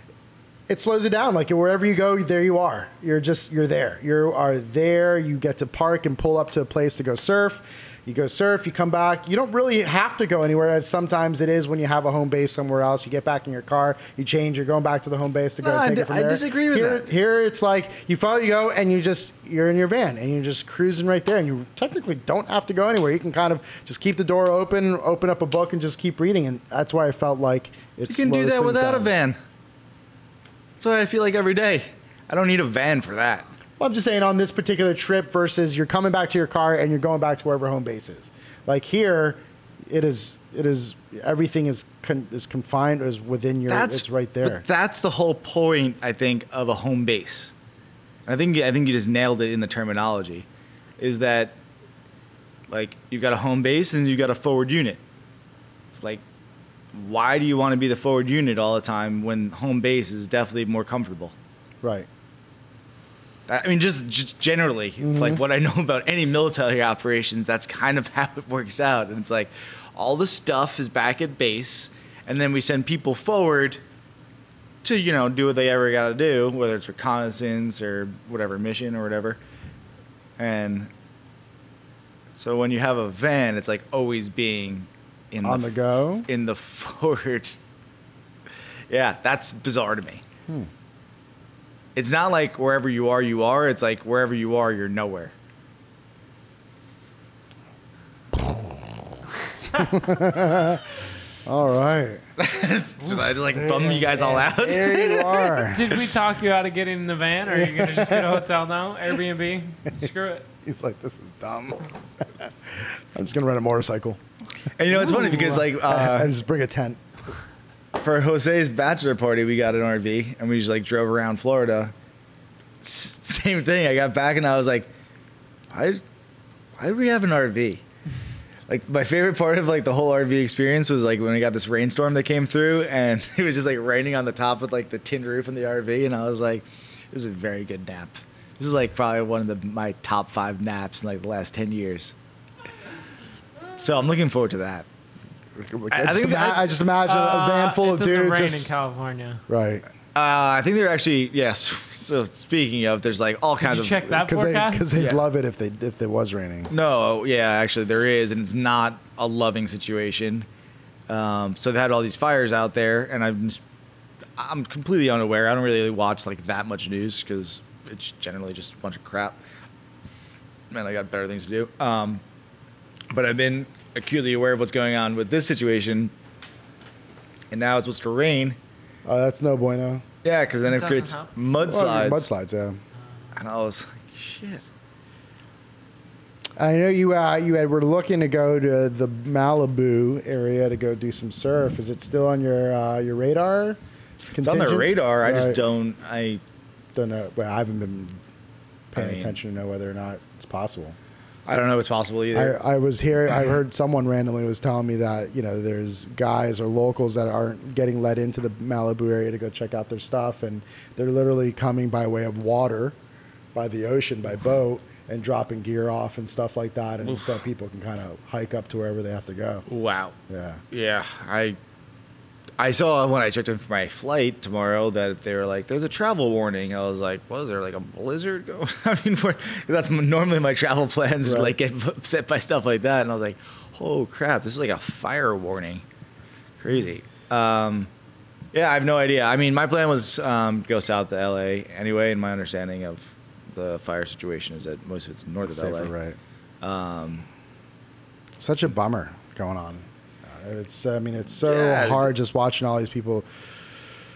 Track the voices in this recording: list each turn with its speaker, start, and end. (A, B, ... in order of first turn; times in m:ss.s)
0:00.7-0:29.1 A
0:15.6-0:17.1 B
0:28.1-0:29.4 B
0:30.8-0:33.5 B
0:33.8-0:44.6 A
0:43.7-0:47.5 B
0:48.3-0:50.5 B
0:51.0-0:51.6 B
0:52.7-0:55.0 B
0:56.9-1:01.4 B
1:01.8-1:02.1 A
1:03.5-1:13.8 B
1:05.0-1:05.4 A
1:14.8-1:19.4 B
1:20.4-1:20.9 B
1:22.4-1:25.7 B
1:25.4-1:26.3 A
1:26.2-1:27.6 B
1:28.9-1:30.2 B
1:32.0-1:35.3 B
1:38.3-1:38.7 A
1:39.7-1:40.8 A
1:41.5-1:42.2 A
1:42.4-1:45.7 B
1:43.5-1:46.0 A
1:45.7-1:50.5 C
1:47.5-1:48.4 A
1:50.6-1:51.9 A
1:52.4-1:54.2 A
1:54.8-1:56.3 B
1:54.9-1:57.0 A
1:58.0-2:01.9 B
2:02.8-2:04.9 B
2:05.7-2:06.0 B
2:06.8-2:07.8 B
2:08.7-2:22.1 B
2:23.8-2:24.9 B
2:25.6-2:28.7 A
2:25.9-2:26.8 B
2:27.0-2:29.4 C
2:29.5-2:29.8 A
2:30.1-2:34.2 B
2:33.6-2:34.9 C
2:34.1-2:36.7 A
2:36.7-2:40.5 B
2:41.1-2:43.6 B
2:44.4-2:49.4 B
2:50.7-2:52.2 B
2:53.1-2:56.1 B
2:57.5-2:58.6 B
2:59.1-3:00.0 A
3:00.2-3:02.3 B
3:00.7-3:01.3 C
3:01.6-3:02.8 A
3:03.3-3:04.6 B
3:06.6-3:15.6 A
3:14.4-3:16.4 B
3:17.0-3:18.2 A
3:18.9-3:21.0 A
3:19.0-3:19.4 B
3:21.5-3:22.6 B
3:22.3-3:33.0 A
3:33.5-3:39.6 A
3:39.7-3:40.2 B
3:40.3-3:40.6 A
3:40.7-3:41.6 B
3:42.6-3:55.8 B
3:51.2-3:51.6 A
3:56.6-3:57.9 B
3:58.5-4:05.9 B
4:05.4-4:06.2 A
4:06.6-4:07.3 B
4:08.4-4:13.3 A
4:11.4-4:12.1 B